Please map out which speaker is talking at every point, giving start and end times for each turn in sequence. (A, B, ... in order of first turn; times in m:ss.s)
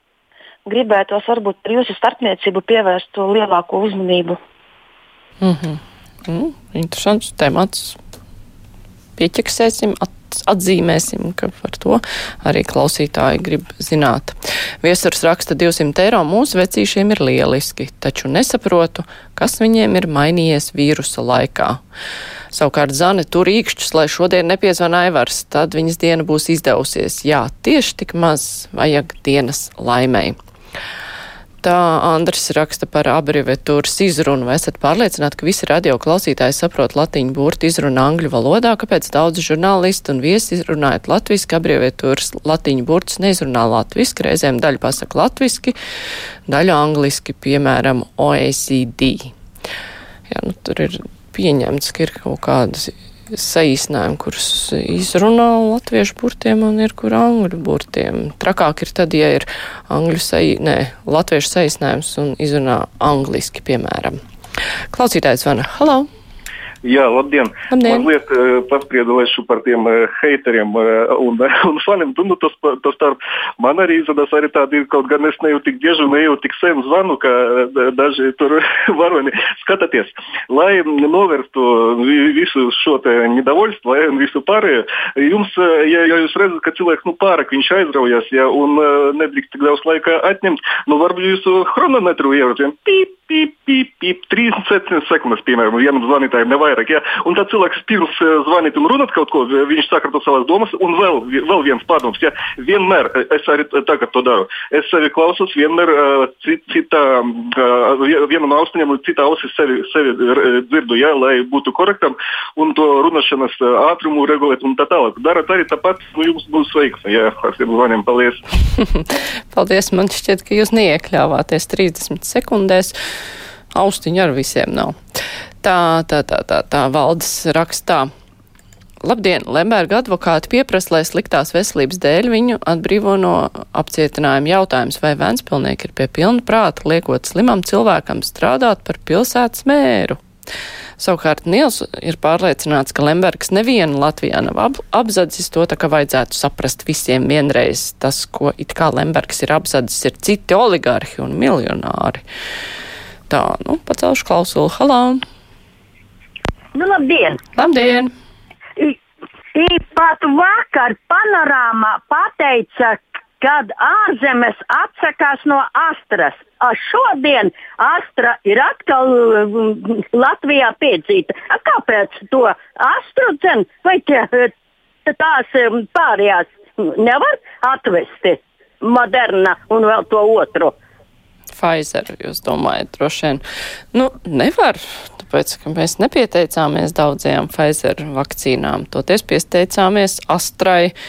0:00.7-0:04.4 A
0:05.4-0:08.0 B
0:09.2-0:21.8 B
0:22.5-0:30.4 B
0:31.6-0:45.8 B
0:46.5-0:49.3 B
0:50.3-1:04.2 B
1:04.9-1:06.1 B
1:07.0-1:07.5 C
1:07.7-1:08.1 B
1:08.0-1:17.3 C
1:18.0-1:20.0 C
1:20.6-1:47.5 C
1:48.0-1:58.4 C
1:58.8-2:02.9 B
2:03.8-2:04.9 B
2:05.6-2:08.1 B
2:09.0-2:20.2 B
2:21.0-2:32.2 B
2:33.3-2:35.2 B
2:36.8-2:37.4 D
2:37.6-2:38.1 B
2:39.6-2:54.5 D
2:55.1-3:00.8 D
3:01.5-3:03.4 B
3:03.9-3:10.9 B